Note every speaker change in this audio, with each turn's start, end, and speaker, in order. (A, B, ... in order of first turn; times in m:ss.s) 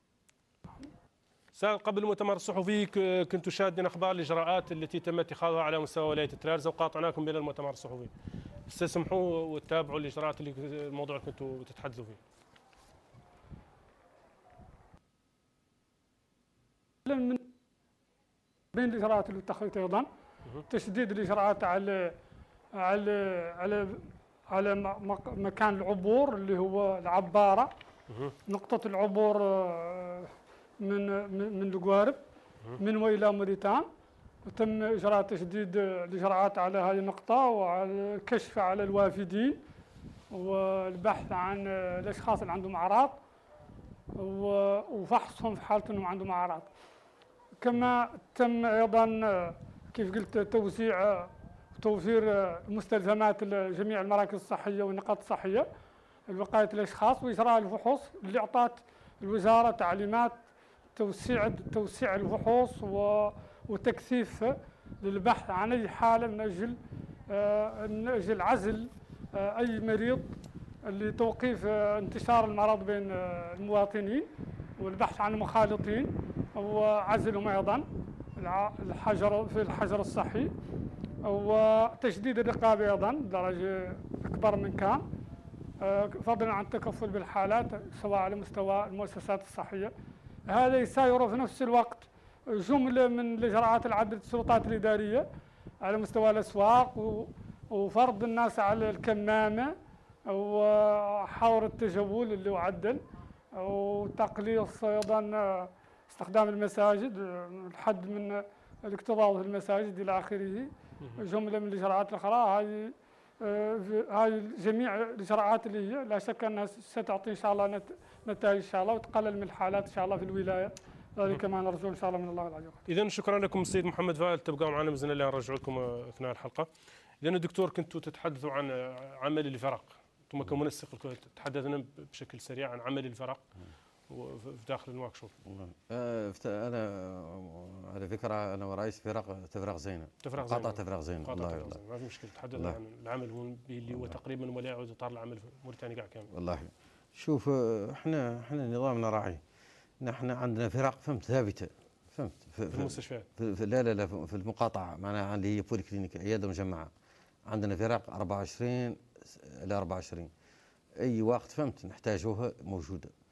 0:01.6-0:08.1 A
0:08.7-0:12.2 A
0:17.0-0:17.4 B
0:18.7-0:20.1 B
0:20.7-0:22.1 B
0:22.8-0:27.7 B
0:28.5-0:30.3 B
0:30.8-0:32.2 B
0:32.8-0:33.9 B
0:34.4-0:39.6 B
0:40.3-0:43.2 B
0:44.2-0:46.7 B
0:47.6-0:55.7 B
0:56.3-1:00.4 B
1:01.0-1:06.8 B
1:07.3-1:10.3 B
1:10.9-1:14.3 B
1:14.8-1:17.8 B
1:18.4-1:20.5 B
1:21.2-1:25.0 B
1:25.8-1:29.9 B
1:30.5-1:35.2 B
1:35.8-1:39.7 B
1:40.3-1:43.0 B
1:43.6-2:02.8 B
2:02.9-2:06.7 A
2:07.2-2:13.4 A
2:14.1-2:15.3 A
2:15.4-2:21.8 C
2:20.2-2:26.3 A
2:23.9-2:24.2 C
2:26.3-2:29.4 C
2:30.0-2:36.9 C
2:32.7-2:33.3 A
2:37.5-2:40.3 C
2:41.0-2:43.1 C